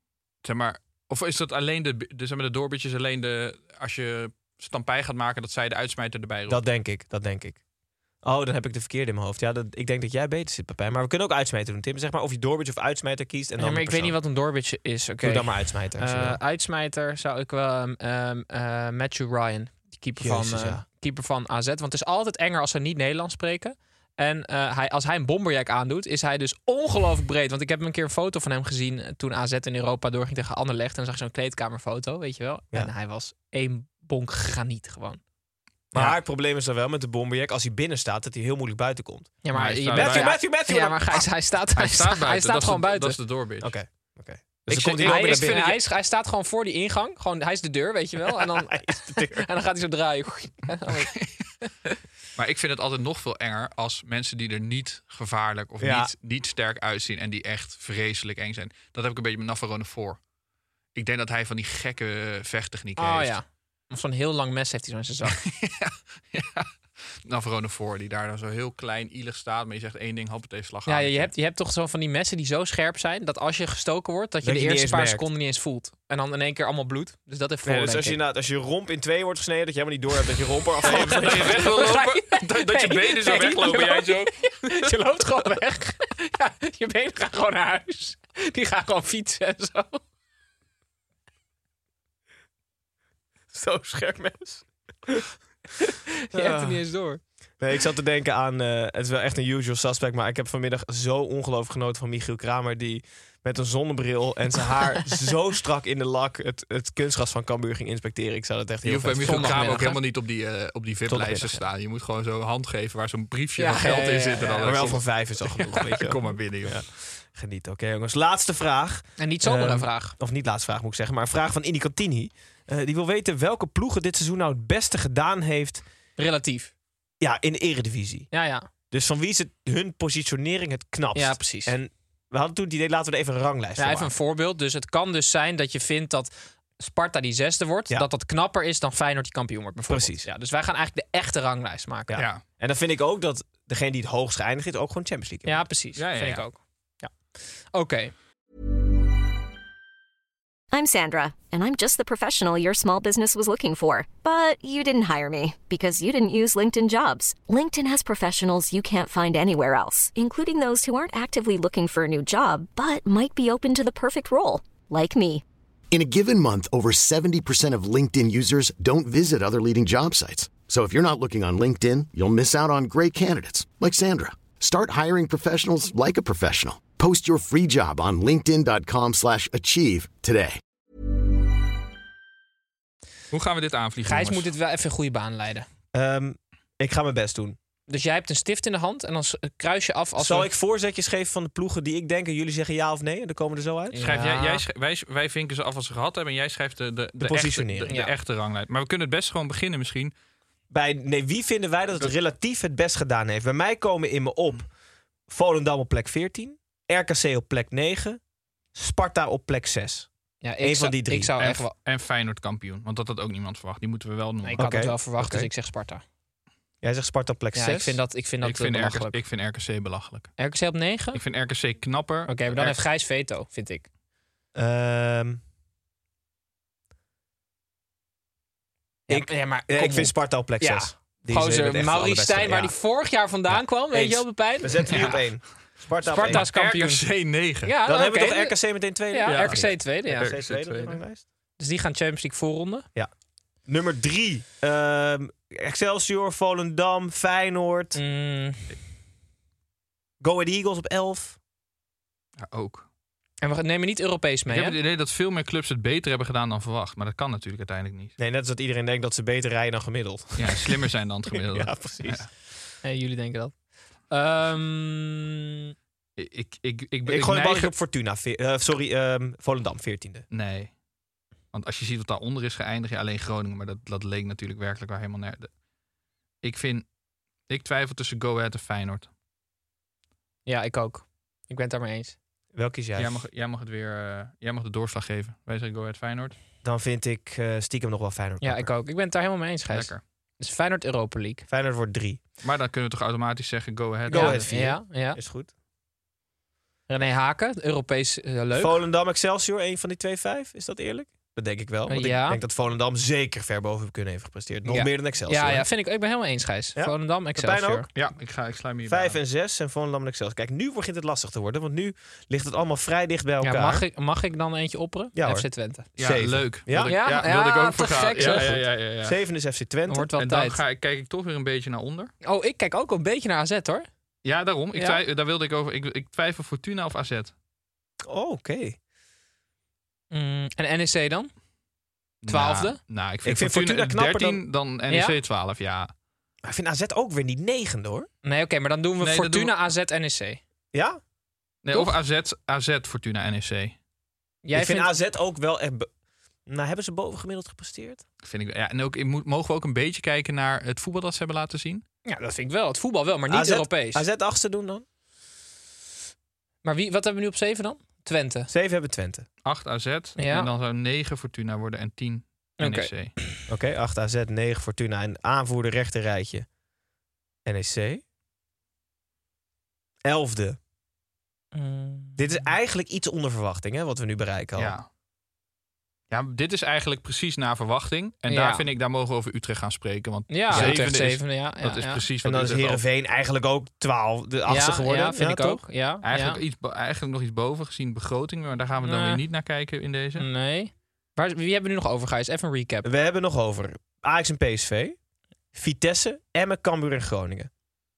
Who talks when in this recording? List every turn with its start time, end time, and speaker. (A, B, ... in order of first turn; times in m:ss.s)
0:00.4-0:06.6 A
0:06.5-0:07.6 B
0:08.2-0:14.2 B
0:13.6-0:35.2 C
0:15.2-0:16.4 B
0:20.2-0:20.8 B
0:35.9-0:39.3 B
0:39.4-0:43.2 C
0:39.5-0:40.3 A
0:39.9-0:41.0 B
0:41.7-0:43.7 A
0:43.6-0:45.7 B
0:44.7-0:51.1 C
0:44.7-0:45.8 A
0:48.3-0:49.4 B
0:51.6-0:51.9 C
0:52.4-1:00.2 A
0:55.8-0:56.1 B
1:00.9-1:03.4 A
1:03.0-1:05.4 C
1:05.2-1:06.7 A
1:07.2-1:11.3 A
1:10.8-1:18.2 C
1:14.4-1:15.2 B
1:17.6-1:21.7 B
1:20.8-1:30.0 C
1:20.9-1:24.9 A
1:33.5-1:34.6 C
1:33.6-1:34.2 B
1:36.3-1:37.2 C
1:36.3-1:36.8 B
1:37.6-1:49.8 B
1:48.8-1:56.8 A
1:49.2-1:50.0 C
1:51.1-1:51.6 B
1:53.6-1:55.0 C
1:54.6-2:05.8 B
1:59.2-2:00.1 C
2:06.2-2:06.7 C
2:07.2-2:08.3 B
2:08.3-2:08.7 C
2:08.9-2:14.1 B
2:11.1-2:11.8 C
2:13.8-2:22.2 C
2:19.9-2:20.3 B
2:22.1-2:25.7 B
2:22.1-2:22.4 A
2:25.4-2:27.1 C
2:26.0-2:26.4 A
2:27.7-2:28.1 C
2:30.8-2:45.4 D
2:45.9-3:00.6 E
3:03.3-3:04.5 A
3:04.0-3:05.7 C
3:05.9-3:07.6 B
3:07.9-3:10.5 C
3:10.2-3:14.0 B
3:13.9-3:14.6 C
3:14.0-3:20.1 A
3:17.2-3:17.9 B
3:17.9-3:18.1 C
3:20.7-3:24.7 B
3:25.3-3:28.2 B
3:28.7-3:30.1 B
3:30.4-3:31.7 C
3:30.6-3:31.3 B
3:31.4-3:34.6 A
3:34.4-3:36.0 C
3:34.6-3:35.5 B
3:36.8-3:38.0 B
3:37.5-3:39.2 C
3:38.4-3:40.3 A
3:40.4-3:41.2 C
3:41.1-3:42.7 A
3:42.3-3:43.8 C
3:44.5-3:45.4 B
3:49.1-3:52.8 B
3:49.1-3:55.1 C
3:53.5-3:56.5 B
3:56.0-3:57.1 C
3:56.2-3:57.7 A
3:57.6-3:58.6 C
3:57.8-4:01.2 B
3:59.1-4:00.3 C
3:59.2-4:01.0 A
4:01.6-4:02.9 C
4:03.7-4:08.0 B
4:07.9-4:08.8 C
4:10.2-4:11.4 B
4:12.4-4:12.8 A
4:13.4-4:14.8 C
4:14.5-4:18.1 A
4:18.2-4:22.3 B
4:20.4-4:22.3 A
4:22.8-4:23.5 C
4:24.1-4:25.4 C
4:26.2-4:27.7 A
4:27.1-4:30.2 B
4:30.3-4:30.7 A
4:31.5-4:35.5 A
4:36.4-4:36.9 A
4:37.5-4:39.1 A
4:40.4-4:42.2 C
4:42.5-4:43.2 B
4:43.0-4:46.3 A
4:46.6-4:48.7 B
4:48.4-4:51.4 C
4:49.7-4:50.0 A
4:51.5-4:52.2 B
4:52.4-4:54.5 A
4:54.1-4:55.5 B
4:54.1-4:55.2 C
4:56.9-4:58.8 C
4:58.5-5:05.7 B
5:01.9-5:02.4 C
5:04.7-5:07.9 C
5:06.8-5:07.8 B
5:07.9-5:09.2 A
5:08.9-5:13.8 B
5:13.4-5:15.9 C
5:15.1-5:17.0 B
5:16.0-5:19.2 A
5:16.8-5:18.6 C
5:18.1-5:20.1 B
5:19.9-5:20.6 C
5:20.2-5:22.1 A
5:22.2-5:23.9 C
5:24.2-5:27.3 A
5:24.8-5:25.0 C
5:28.0-5:28.8 B
5:30.1-5:31.3 C
5:32.2-5:35.9 A
5:32.3-5:32.8 C
5:33.2-5:34.4 B
5:34.9-5:35.2 C
5:36.4-5:38.1 B
5:38.2-5:40.4 C
5:39.0-5:39.6 A
5:40.7-5:41.0 B
5:41.6-5:43.8 A
5:44.4-5:44.9 C
5:44.5-5:45.9 B
5:46.5-5:48.0 B
5:48.2-5:51.8 A
5:52.0-5:54.0 C
5:53.3-5:54.8 B
5:56.6-5:58.5 C
5:58.5-5:59.2 B
5:59.4-6:03.1 A
6:00.2-6:00.5 C
6:02.6-6:03.3 C
6:03.5-6:06.4 B
6:07.4-6:08.0 B
6:10.0-6:10.6 B
6:11.5-6:12.4 C
6:12.2-6:14.8 B
6:14.6-6:14.9 A
6:16.1-6:22.8 A
6:18.3-6:18.7 C
6:20.3-6:22.0 C
6:20.5-6:20.8 B
6:22.2-6:25.6 B
6:24.5-6:26.4 C
6:26.0-6:30.2 A
6:28.8-6:29.2 C
6:30.2-6:32.9 C
6:32.8-6:35.0 B
6:35.5-6:37.5 B